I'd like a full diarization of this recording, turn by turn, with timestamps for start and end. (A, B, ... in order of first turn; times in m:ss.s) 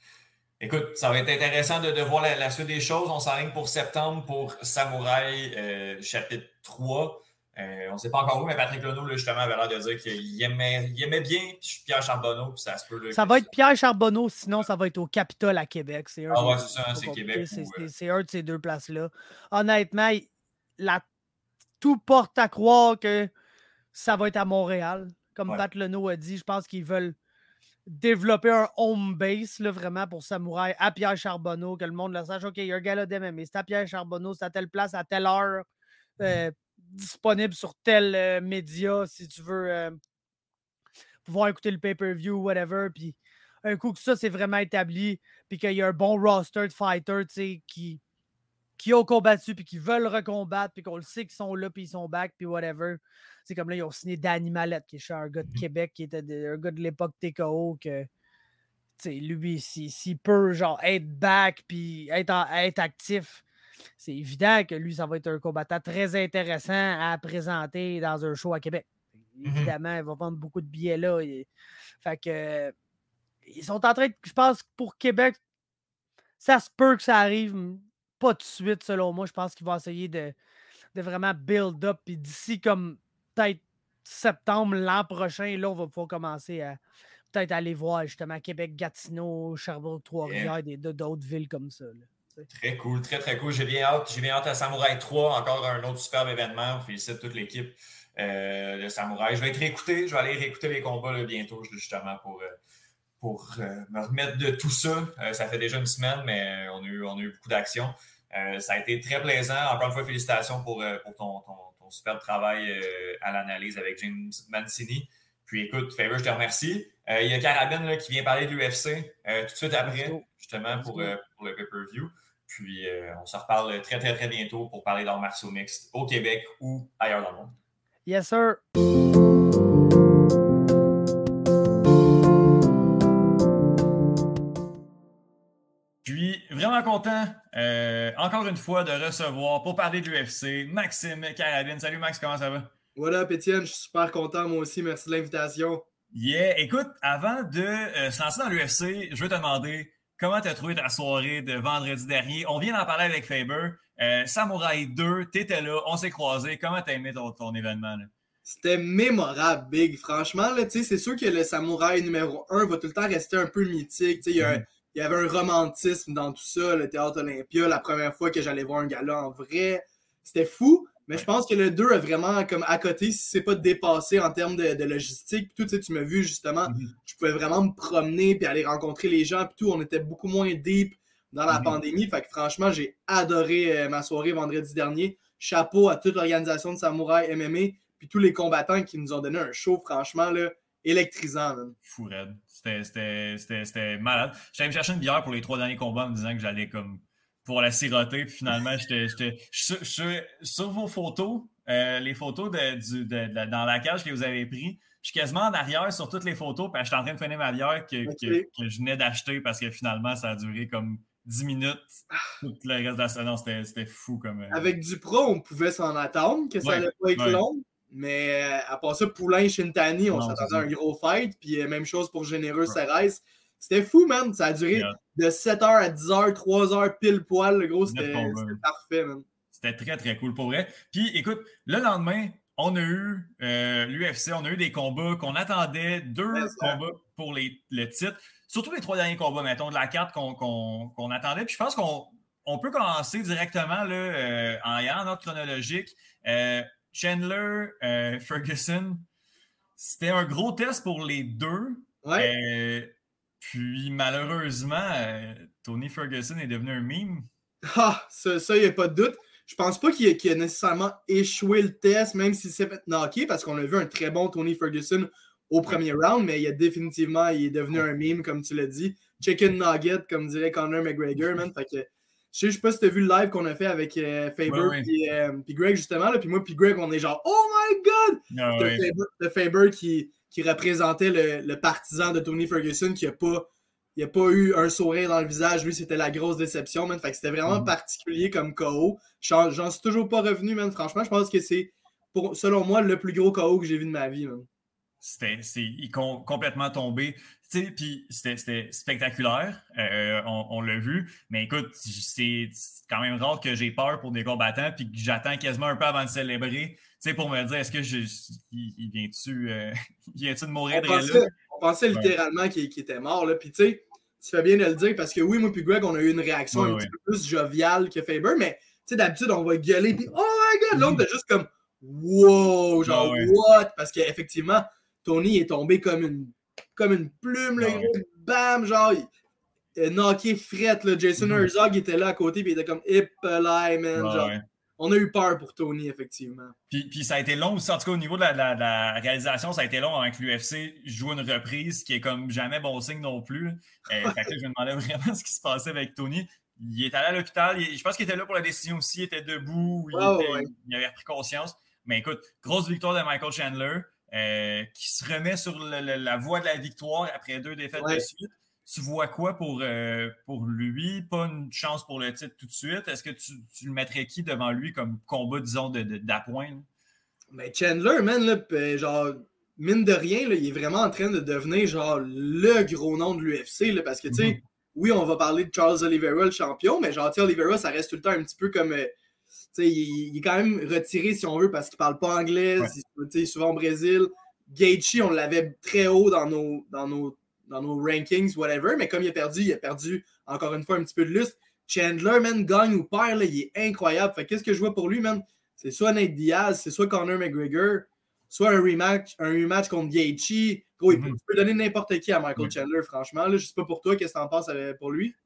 0:00.6-0:13.5 A
0:13.1-0:21.0 B
0:16.3-0:17.9 A
0:21.8-0:23.3 B
0:23.9-0:27.1 B
0:27.9-0:35.6 B
0:36.2-0:40.0 B
0:41.2-0:48.0 B
0:48.8-0:58.1 B
0:59.0-1:03.4 B
1:04.0-1:11.5 B
1:09.4-1:09.7 A
1:12.0-1:12.7 B
1:13.4-1:15.4 B
1:16.4-1:20.3 B
1:20.9-1:26.8 B
1:27.3-1:32.5 B
1:30.2-1:30.5 A
1:32.5-1:42.5 A
1:43.2-2:07.6 A
1:59.8-2:01.1 B
2:08.0-2:08.6 B
2:16.0-2:22.7 A
2:23.0-2:25.8 C
2:26.1-2:38.1 A
2:38.4-3:11.7 C
2:56.6-2:56.9 A
3:01.5-3:01.8 A
3:11.8-3:34.7 A
3:28.0-3:28.4 C
3:34.5-3:49.2 C
3:36.6-3:37.4 A
3:40.1-3:40.7 A
3:44.7-3:45.0 A
3:47.8-3:48.6 A
3:49.5-4:09.0 A
3:56.3-3:56.8 C
4:09.8-4:17.3 A
4:12.0-4:12.3 C
4:17.6-4:54.5 C
4:34.4-4:34.9 A
4:38.3-4:38.9 A
4:47.4-4:47.7 A
4:55.0-5:11.3 A
5:10.7-5:29.1 C
5:16.5-5:16.9 A
5:20.7-5:21.0 A
5:22.8-5:23.3 A
5:27.6-5:27.9 A
5:29.7-5:36.5 C
5:31.2-5:31.5 A
5:33.9-5:34.4 A
5:36.7-6:06.6 A
5:49.9-5:50.5 C
5:57.8-5:58.0 C
6:07.3-6:18.9 C
6:14.1-6:14.4 A
6:19.5-6:45.1 C
6:40.9-6:41.2 A